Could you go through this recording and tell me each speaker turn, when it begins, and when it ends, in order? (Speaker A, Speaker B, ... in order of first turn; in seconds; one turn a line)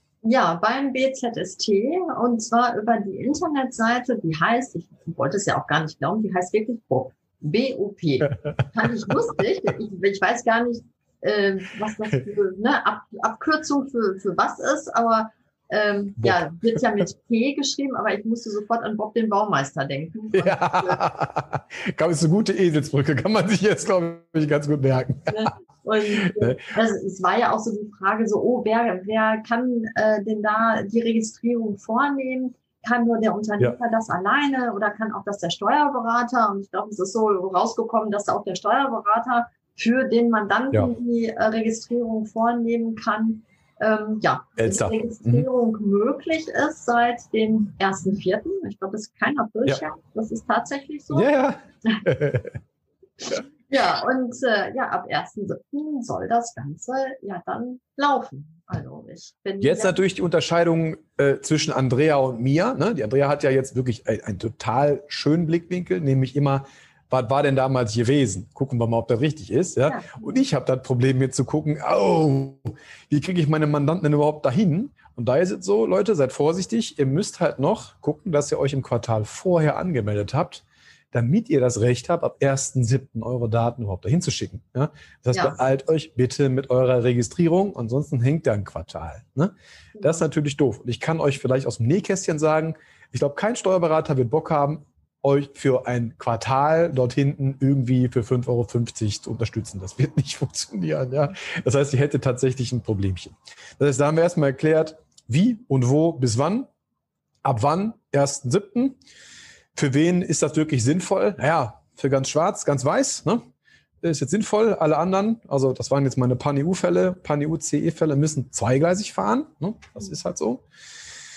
Speaker A: 0.2-21.0
Speaker B: 20.3-25.5
Speaker A: 25.3-51.3
Speaker B: 26.2-26.6
Speaker B: 44.6-45.5
Speaker B: 51.1-52.6
Speaker A: 53.7-60.0
Speaker B: 59.6-106.7
Speaker A: 69.9-70.4
Speaker A: 90.0-90.2
Speaker B: 107.4-109.0
Speaker B: 109.8-113.4
Speaker B: 114.0-120.6